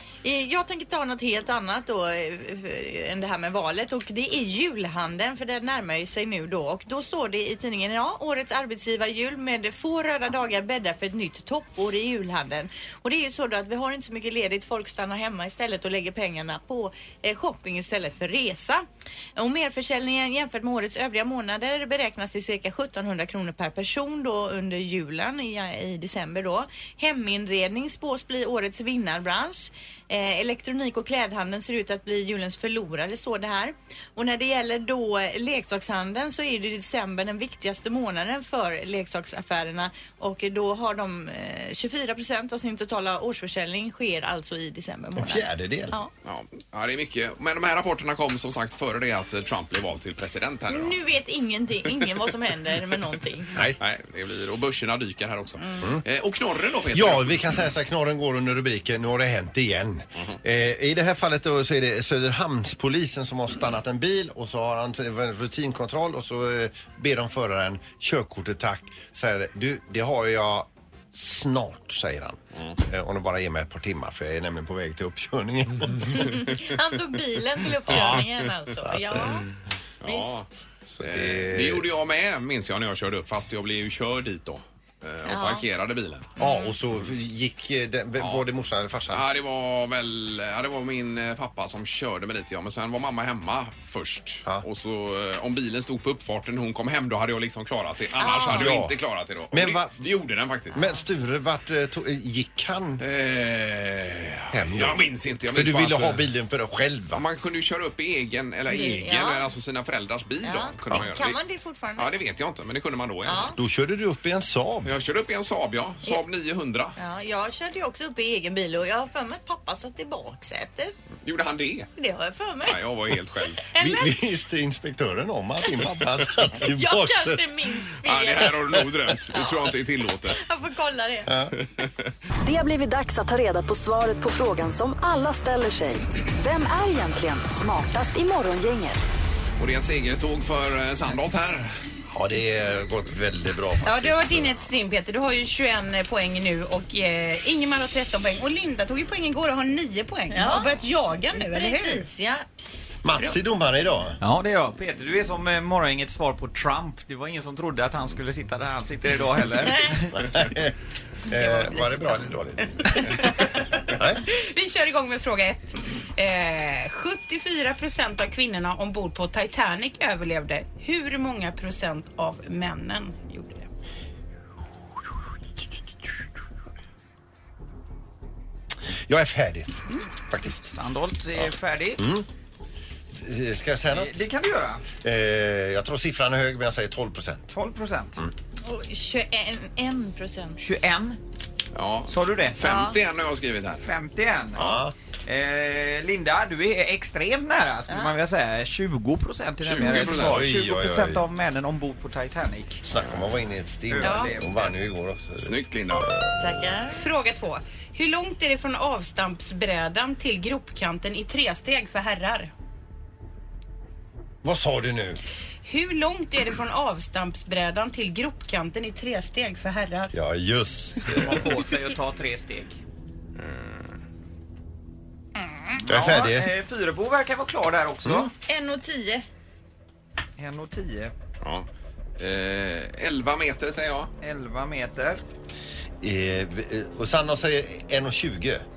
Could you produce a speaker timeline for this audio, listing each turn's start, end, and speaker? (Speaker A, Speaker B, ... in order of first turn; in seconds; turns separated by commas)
Speaker A: 0.2-46.1, Speaker B: 45.2-46.0, Speaker C: 46.2-51.0, Speaker A: 50.7-53.5, Speaker C: 53.8-57.5, Speaker A: 55.6-55.9, Speaker B: 56.9-76.3, Speaker A: 76.0-79.5, Speaker B: 77.9-78.3, Speaker B: 78.8-79.5, Speaker C: 80.0-80.5, Speaker A: 80.0-80.3, Speaker B: 81.0-81.9, Speaker C: 81.0-86.3, Speaker A: 85.3-85.6, Speaker B: 86.4-89.2, Speaker A: 86.4-86.8, Speaker C: 88.2-88.4, Speaker C: 89.1-100.8, Speaker A: 98.2-98.7, Speaker B: 98.4-99.0, Speaker B: 99.5-100.0, Speaker B: 100.7-103.0, Speaker C: 103.0-106.2, Speaker B: 104.5-107.2, Speaker C: 107.1-111.4, Speaker A: 108.7-109.5, Speaker A: 110.4-112.2, Speaker C: 112.0-113.5, Speaker A: 113.2-113.6, Speaker B: 113.5-115.0, Speaker C: 114.8-117.0, Speaker A: 117.0-121.0, Speaker C: 121.2-121.9, Speaker A: 122.0-122.8, Speaker C: 122.6-123.7, Speaker A: 123.7-124.1, Speaker B: 123.8-127.5, Speaker A: 126.6-128.6, Speaker C: 128.0-130.4, Speaker A: 130.3-131.3, Speaker B: 131.3-131.5, Speaker D: 132.4-139.1, Speaker C: 139.6-141.7, Speaker B: 142.1-144.6, Speaker E: 143.8-152.1, Speaker A: 150.3-150.7, Speaker A: 151.3-152.4, Speaker B: 153.0-154.2, Speaker F: 154.2-160.1, Speaker B: 160.1-160.8, Speaker B: 161.3-163.2, Speaker E: 161.4-161.6, Speaker B: 163.9-164.2, Speaker E: 164.2-173.7, Speaker B: 179.1-180.7, Speaker F: 180.6-182.1, Speaker B: 182.0-182.2, Speaker B: 183.1-184.2, Speaker F: 183.9-184.8, Speaker B: 185.0-187.5, Speaker F: 187.5-188.2, Speaker A: 188.6-190.6, Speaker F: 190.6-191.2, Speaker C: 191.8-193.8, Speaker F: 192.1-192.6, Speaker A: 192.6-193.0, Speaker F: 193.8-194.7, Speaker B: 194.5-194.9, Speaker F: 195.2-202.8, Speaker A: 197.9-198.2, Speaker C: 199.6-200.5, Speaker B: 199.9-201.2, Speaker B: 202.9-206.3, Speaker F: 203.9-204.7, Speaker E: 204.0-204.3, Speaker C: 205.4-206.1, Speaker A: 206.4-207.0, Speaker E: 206.9-212.5, Speaker B: 214.4-215.2, Speaker E: 215.6-220.1, Speaker B: 220.1-221.4, Speaker F: 221.1-222.8, Speaker C: 223.4-223.9, Speaker F: 225.8-228.3, Speaker B: 225.9-226.5, Speaker B: 228.0-228.3, Speaker A: 228.4-229.2, Speaker F: 230.4-231.1, Speaker C: 231.4-234.1, Speaker F: 234.2-235.2, Speaker B: 236.0-238.6